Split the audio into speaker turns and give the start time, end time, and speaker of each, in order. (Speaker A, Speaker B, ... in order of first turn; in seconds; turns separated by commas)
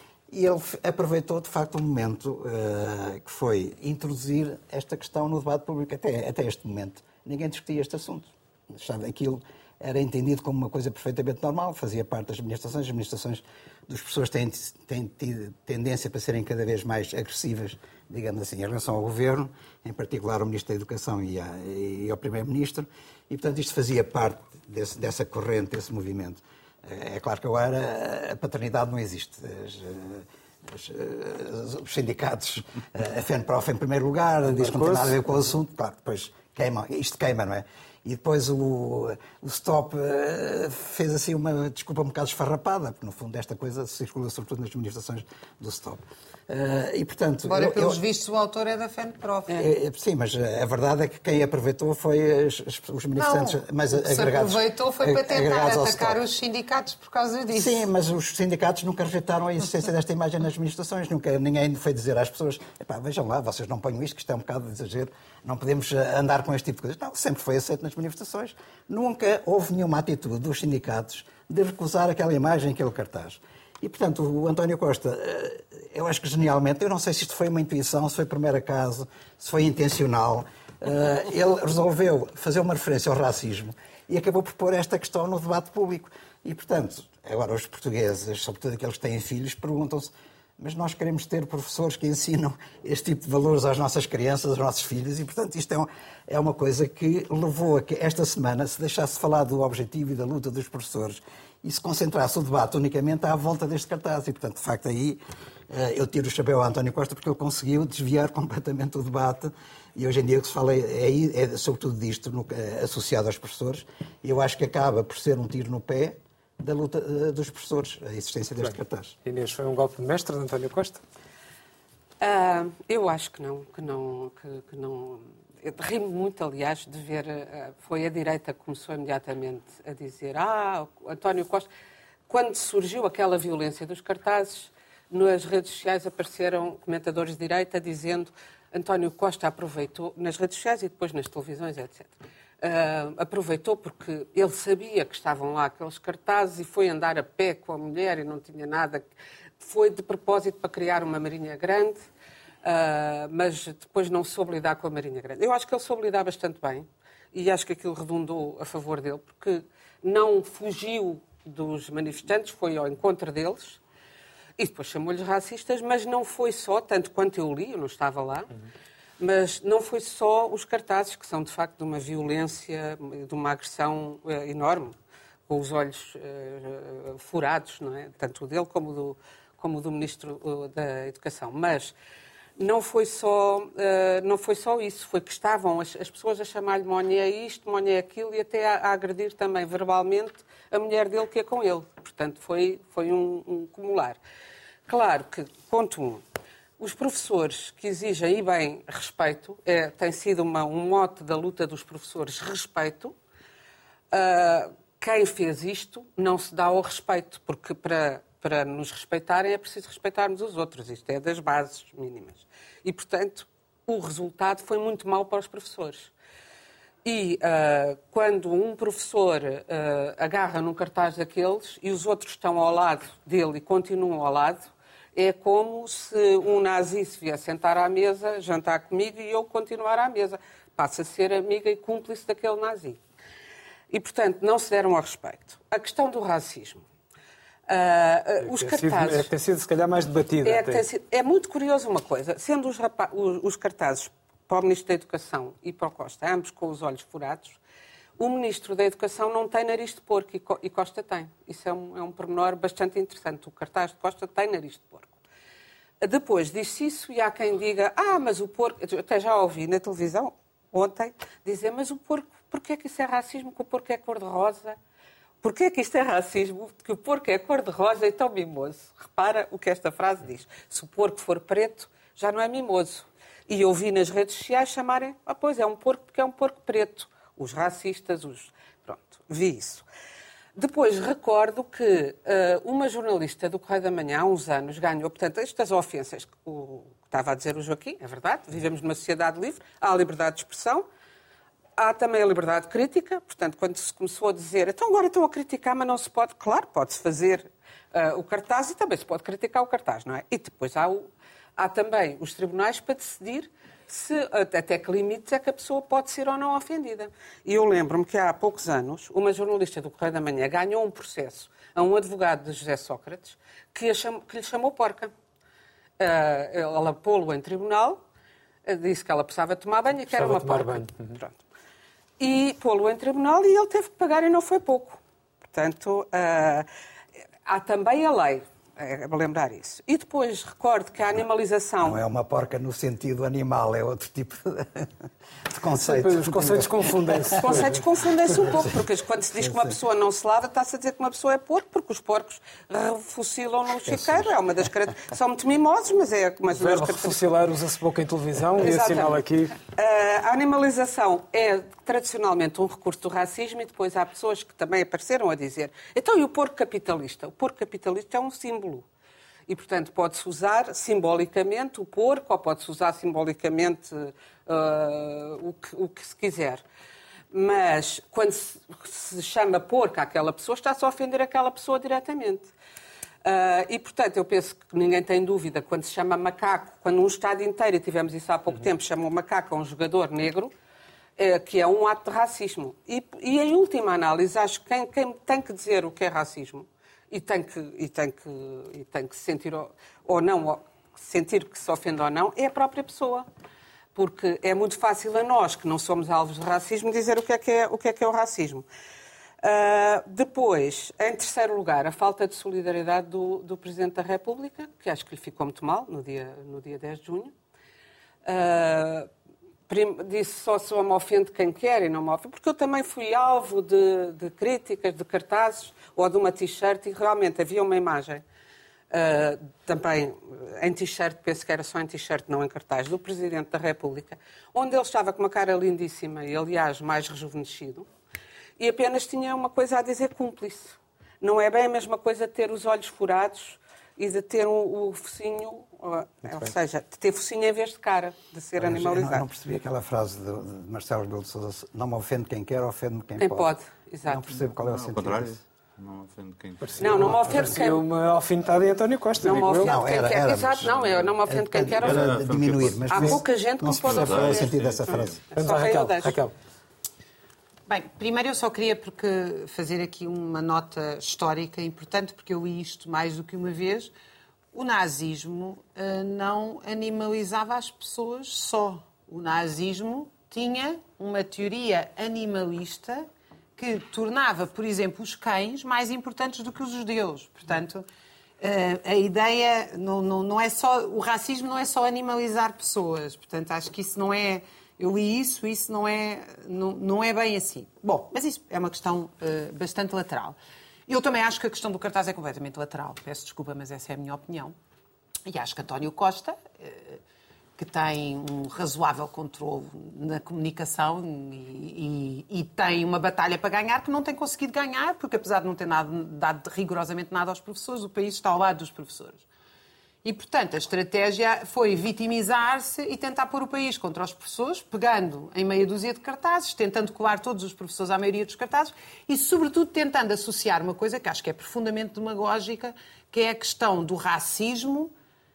Speaker A: 0.3-48.0, Speaker B: 34.5-35.2, Speaker C: 47.5-49.7, Speaker A: 49.5-56.2, Speaker C: 53.2-57.9, Speaker A: 57.5-119.1, Speaker B: 119.2-121.0, Speaker D: 122.2-131.7, Speaker D: 132.3-149.1, Speaker D: 149.6-152.0, Speaker D: 152.6-163.8, Speaker D: 164.6-168.5, Speaker D: 169.2-174.9, Speaker D: 175.5-181.9, Speaker D: 182.6-194.2, Speaker D: 194.9-196.2, Speaker D: 196.8-203.1, Speaker D: 204.1-216.1, Speaker D: 217.1-233.0, Speaker D: 233.9-236.8, Speaker D: 237.7-239.3, Speaker B: 238.4-240.8, Speaker D: 240.4-247.6, Speaker D: 248.2-255.2, Speaker D: 256.0-264.8, Speaker D: 265.4-279.8, Speaker D: 280.6-290.9, Speaker D: 291.8-315.1, Speaker D: 316.0-318.0, Speaker D: 318.7-321.3, Speaker B: 320.1-321.2, Speaker D: 322.2-326.7, Speaker D: 327.5-332.0, Speaker A: 331.8-337.7, Speaker B: 335.8-337.8, Speaker D: 337.4-347.2, Speaker A: 339.4-339.8, Speaker A: 343.9-344.3, Speaker B: 346.5-349.6, Speaker D: 348.6-358.9, Speaker D: 359.5-366.6, Speaker D: 367.3-372.5, Speaker D: 373.2-380.5, Speaker D: 381.2-393.3, Speaker D: 393.9-398.6, Speaker D: 399.4-407.3, Speaker D: 408.2-409.1, Speaker D: 409.7-418.2, Speaker D: 418.9-427.9, Speaker D: 428.6-439.3, Speaker A: 438.6-443.5, Speaker D: 443.2-444.2, Speaker A: 444.1-445.4, Speaker E: 444.6-447.3, Speaker B: 446.6-449.8, Speaker D: 446.8-447.8, Speaker D: 449.2-452.1, Speaker A: 449.6-455.2, Speaker E: 451.8-452.9, Speaker D: 452.9-456.2, Speaker E: 453.9-455.2, Speaker B: 455.3-456.3, Speaker C: 457.7-463.9, Speaker C: 464.5-477.9, Speaker C: 478.4-494.6, Speaker C: 495.3-497.0, Speaker C: 497.6-509.3, Speaker C: 510.0-524.9